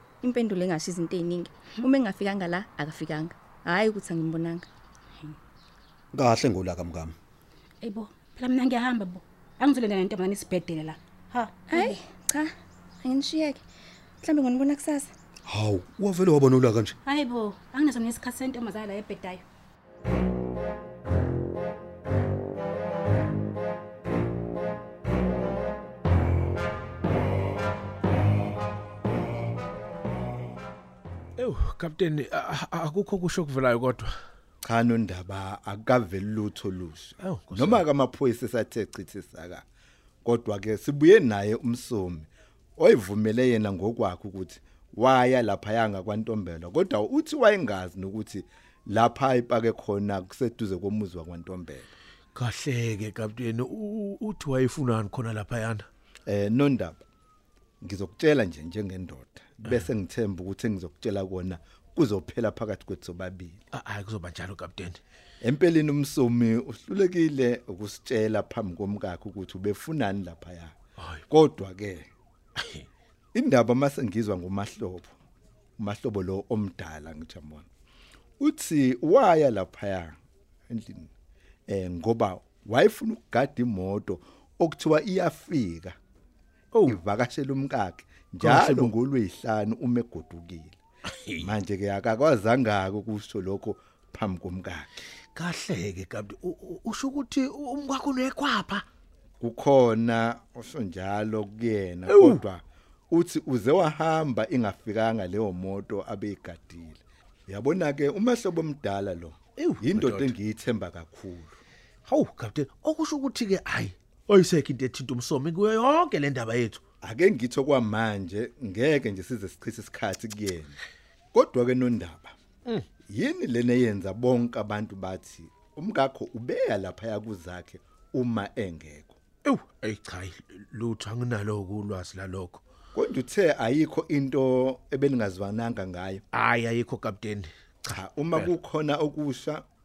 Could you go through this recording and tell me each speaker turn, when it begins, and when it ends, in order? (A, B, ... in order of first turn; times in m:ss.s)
0:00.2-0:04.6 A
0:06.1-0:07.1 B
0:07.8-0:12.0 C
0:11.7-0:13.6 A
0:14.2-0:15.1 A
0:15.4-0:17.0 B
0:17.0-0:19.4 C
0:31.4-0:34.1 D
0:34.6-0:39.6 E
0:37.2-0:37.8 D
0:40.2-0:51.9 E
0:52.3-0:55.9 D
0:56.3-0:57.0 E
0:57.8-1:03.6 E
0:59.6-0:59.9 D
1:03.7-1:05.0 D
1:05.4-1:10.8 E
1:11.0-1:11.2 D
1:11.3-1:12.1 E
1:12.6-1:12.9 D
1:13.3-1:15.1 E
1:15.8-1:17.7 E
1:18.4-1:20.2 E
1:20.7-1:21.1 E
1:21.7-1:26.0 E
1:26.7-1:27.0 D
1:26.9-1:30.8 E
1:28.4-1:28.9 D
1:31.4-1:34.9 E
1:35.3-1:38.8 D
1:39.4-1:51.6 E
1:42.0-1:42.4 D
1:49.6-1:50.4 D
1:52.0-1:56.8 D
1:57.0-2:00.8 E
2:01.3-2:02.3 E
2:03.1-2:09.2 E
2:09.4-2:12.6 D
2:12.9-2:16.2 E
2:16.3-2:18.5 D
2:17.9-2:19.6 E